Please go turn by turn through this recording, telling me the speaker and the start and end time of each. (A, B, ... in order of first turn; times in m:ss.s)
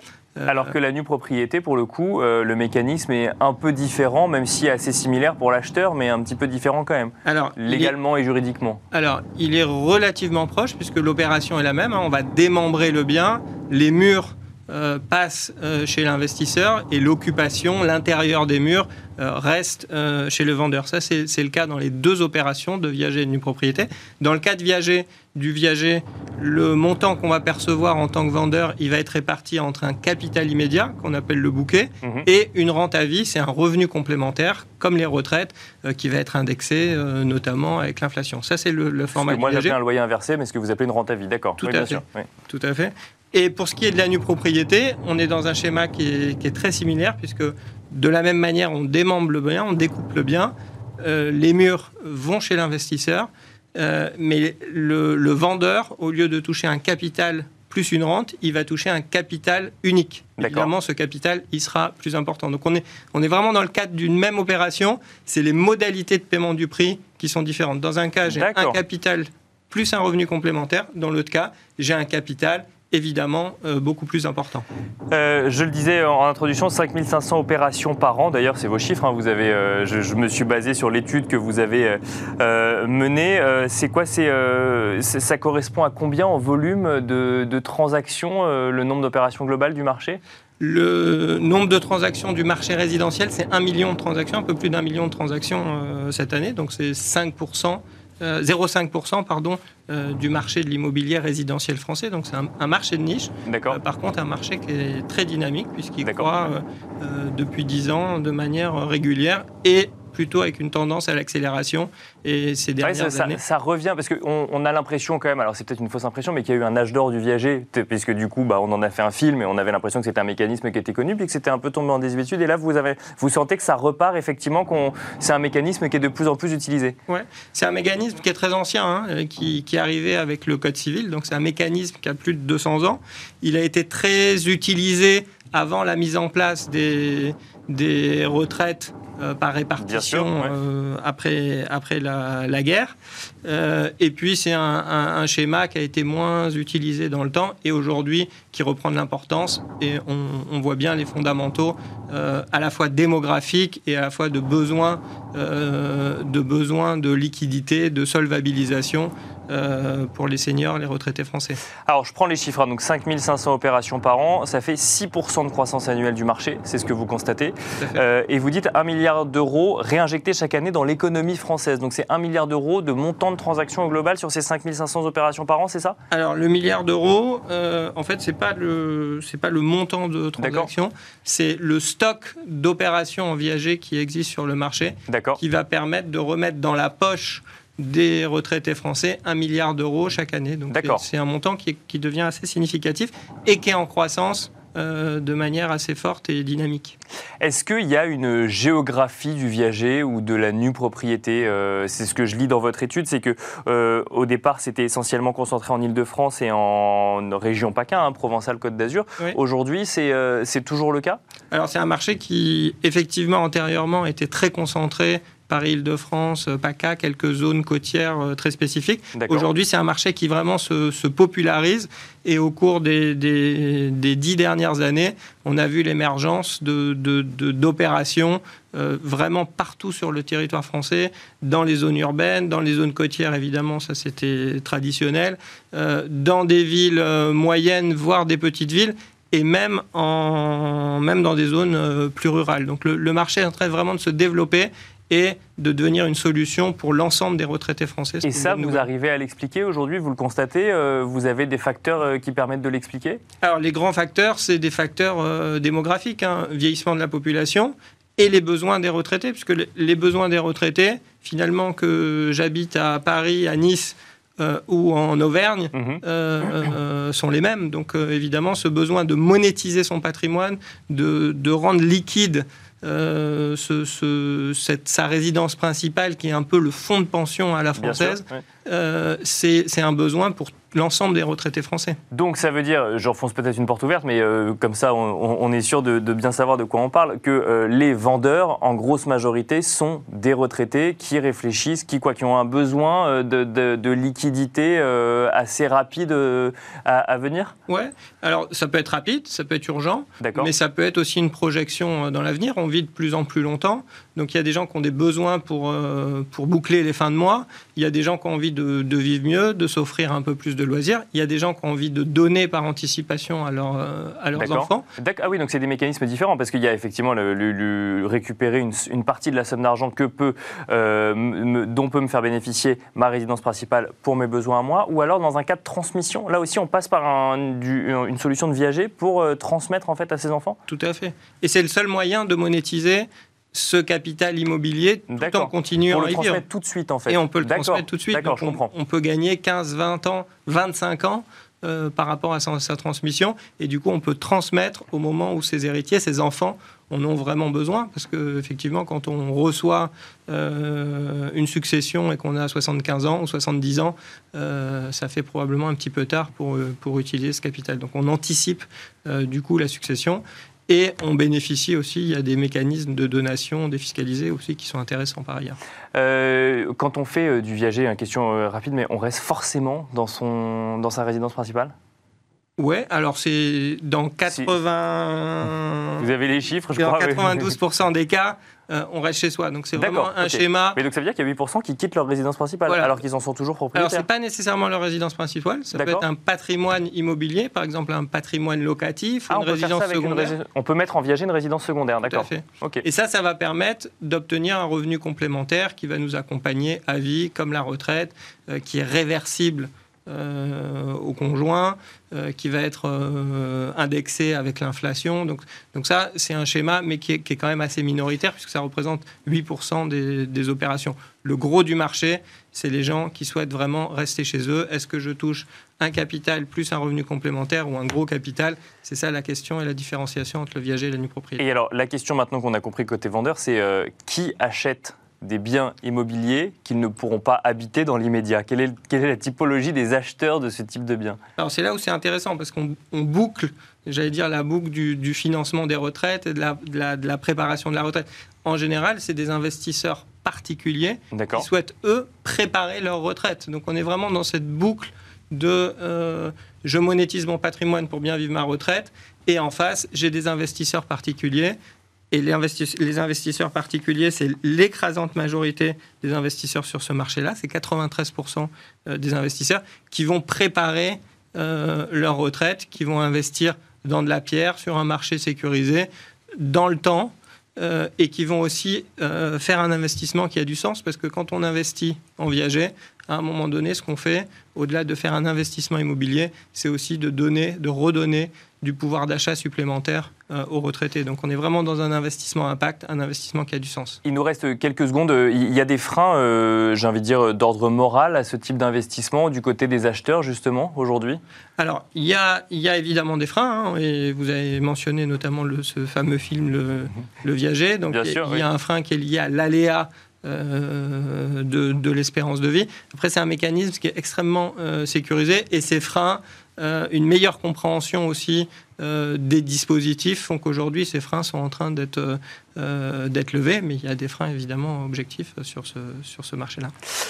0:00.4-0:00.7 A
0:00.5-0:08.8 B
0:07.2-0:07.9 A
0:08.9-0:39.7 A
0:39.1-0:42.3 B
0:41.6-1:14.6 A
1:00.4-1:00.7 B
1:08.2-1:08.8 B
1:15.1-1:30.2 B
1:30.6-1:53.4 A
1:43.4-1:43.8 B
1:46.0-1:46.3 B
1:52.8-2:07.0 B
2:07.1-2:41.6 A
2:19.8-2:20.5 B
2:41.8-2:56.0 B
2:56.1-3:17.0 A
3:00.4-3:00.7 B
3:05.1-3:05.4 B
3:10.7-3:11.0 B
3:17.4-3:31.2 B
3:31.5-4:08.8 A
3:39.1-3:39.5 B
4:08.2-4:13.2 B
4:13.4-4:42.0 A
4:25.7-4:26.0 B
4:37.8-4:38.4 B
4:42.1-4:57.5 B
4:57.7-5:14.8 A
5:00.2-5:00.5 B
5:14.3-5:30.6 B
5:30.7-5:36.4 A
5:35.1-5:38.7 B
5:37.1-6:05.6 A
6:05.9-6:11.7 B
6:12.6-6:16.1 A
6:16.0-6:17.6 B
6:16.8-6:20.8 A
6:19.8-6:24.0 B
6:22.7-6:22.9 A
6:23.7-6:30.3 A
6:25.7-6:26.0 B
6:29.3-6:32.8 B
6:32.1-7:01.4 A
7:01.4-7:11.2 B
7:11.4-7:31.6 A
7:21.1-7:21.5 B
7:32.1-8:04.0 A
8:04.0-8:11.2 B
8:11.6-8:36.7 A
8:17.9-8:18.4 B